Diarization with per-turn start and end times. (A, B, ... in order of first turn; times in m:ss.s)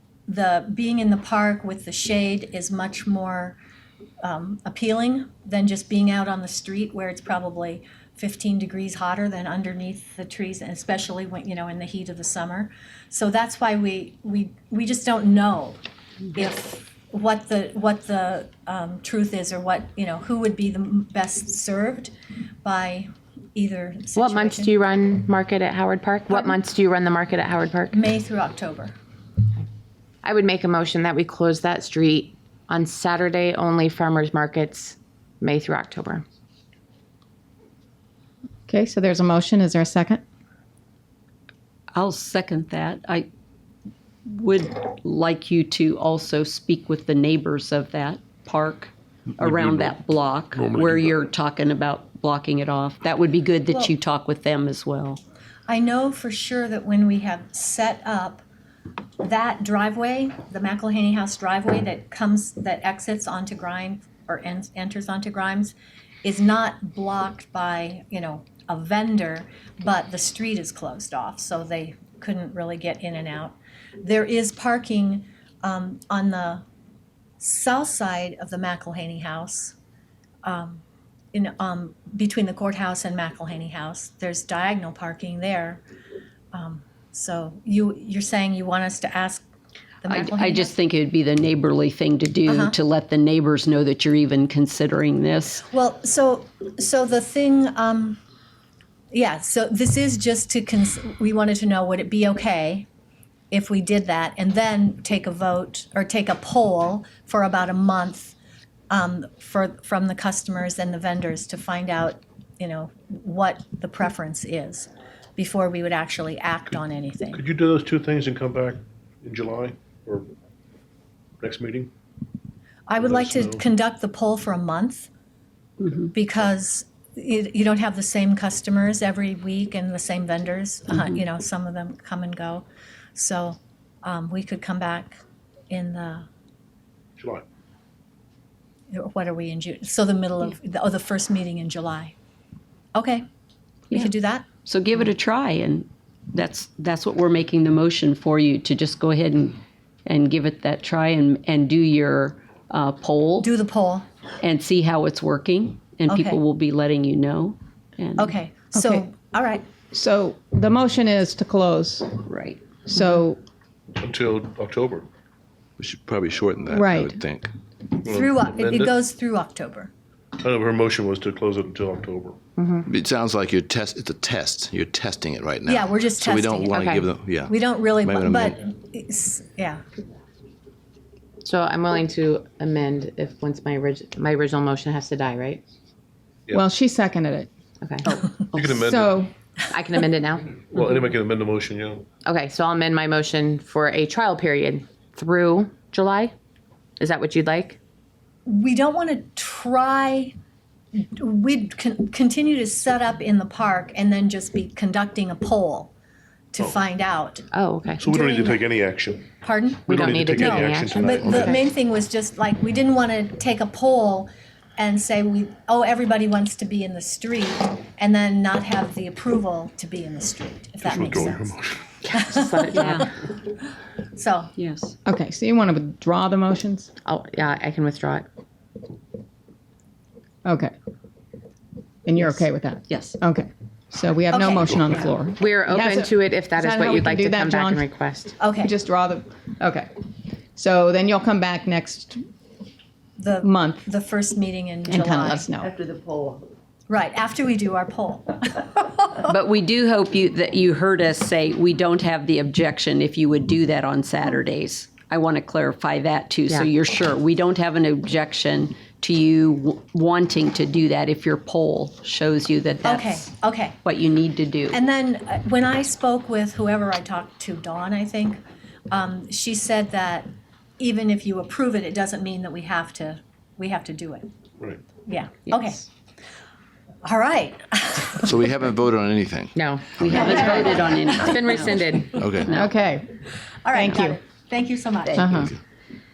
0:00.3-0:03.6 A
0:04.2-0:15.8 A
0:16.3-0:24.7 A
0:24.2-0:28.0 B
0:27.9-0:28.9 A
0:30.2-0:36.2 B
0:38.7-0:40.2 C
0:41.9-0:43.3 D
0:44.3-0:55.2 D
0:49.4-0:50.0 E
0:50.5-0:51.2 E
0:55.7-0:58.4 A
0:59.2-1:16.6 A
1:17.4-1:19.8 A
1:20.4-1:25.8 A
1:26.5-1:29.5 A
1:30.0-1:30.7 A
1:30.1-1:35.6 D
1:32.5-1:32.8 A
1:35.7-1:38.2 A
1:39.1-1:42.9 A
1:43.5-1:48.4 A
1:48.9-1:57.4 A
1:57.3-2:00.3 E
2:01.4-2:01.9 E
2:02.9-2:05.1 A
2:03.0-2:03.6 E
2:05.8-2:06.1 D
2:06.1-2:16.2 A
2:17.2-2:17.4 E
2:18.9-2:22.1 A
2:22.9-2:23.2 A
2:23.9-2:24.5 A
2:24.6-2:33.5 D
2:33.4-2:34.0 A
2:34.4-2:38.4 D
2:36.1-2:36.4 A
2:38.2-2:39.6 A
2:38.7-2:39.1 C
2:39.9-2:42.2 C
2:42.2-2:42.6 D
2:42.9-2:43.4 C
2:44.0-2:45.0 E
2:45.8-2:47.5 F
2:46.7-2:47.2 C
2:48.0-2:49.0 E
2:48.0-2:49.9 A
2:50.4-2:52.4 E
2:52.6-2:52.9 B
2:52.9-2:58.5 F
2:55.7-2:56.9 A
2:56.7-2:57.1 B
2:57.5-2:59.8 A
3:01.4-3:05.6 B
3:06.5-3:07.5 C
3:07.8-3:08.2 B
3:08.1-3:08.4 D
3:08.5-3:09.2 E
3:08.6-3:09.3 C
3:09.7-3:10.5 B
3:10.6-3:12.0 E
3:12.2-3:16.3 B
3:17.0-3:17.8 B
3:18.4-3:20.3 A
3:21.0-3:25.9 A
3:26.5-3:27.4 A
3:27.5-3:28.0 B
3:28.0-3:29.3 E
3:28.0-3:28.6 A
3:29.4-3:41.5 A
3:29.9-3:31.6 E
3:29.9-3:31.6 B
3:40.8-3:41.8 E
3:42.0-3:43.0 B
3:42.1-3:43.0 A
3:42.7-3:43.1 D
3:44.1-3:44.5 A
3:44.6-3:44.9 D
3:45.0-3:46.9 C
3:47.0-3:48.2 B
3:50.4-3:50.7 C
3:52.0-3:57.8 C
3:52.9-3:53.2 D
3:54.3-3:54.8 A
3:55.4-3:58.3 B
3:58.4-3:58.7 A
3:58.5-3:59.9 C
4:00.5-4:02.2 C
4:03.2-4:05.4 A
4:03.4-4:03.8 C
4:04.9-4:05.7 C
4:05.5-4:06.5 D
4:06.9-4:09.3 A
4:09.2-4:23.3 D
4:22.8-4:23.8 A
4:23.8-4:24.8 D
4:24.7-4:28.4 A
4:28.9-4:34.3 A
4:35.0-4:35.9 A
4:37.0-4:38.4 A
4:38.2-4:40.7 F
4:39.5-4:42.2 B
4:40.0-4:41.9 D
4:40.1-4:41.7 A
4:42.1-4:42.5 F
4:42.4-4:42.7 D
4:42.4-4:44.2 C
4:43.6-4:45.3 A
4:45.2-4:45.6 C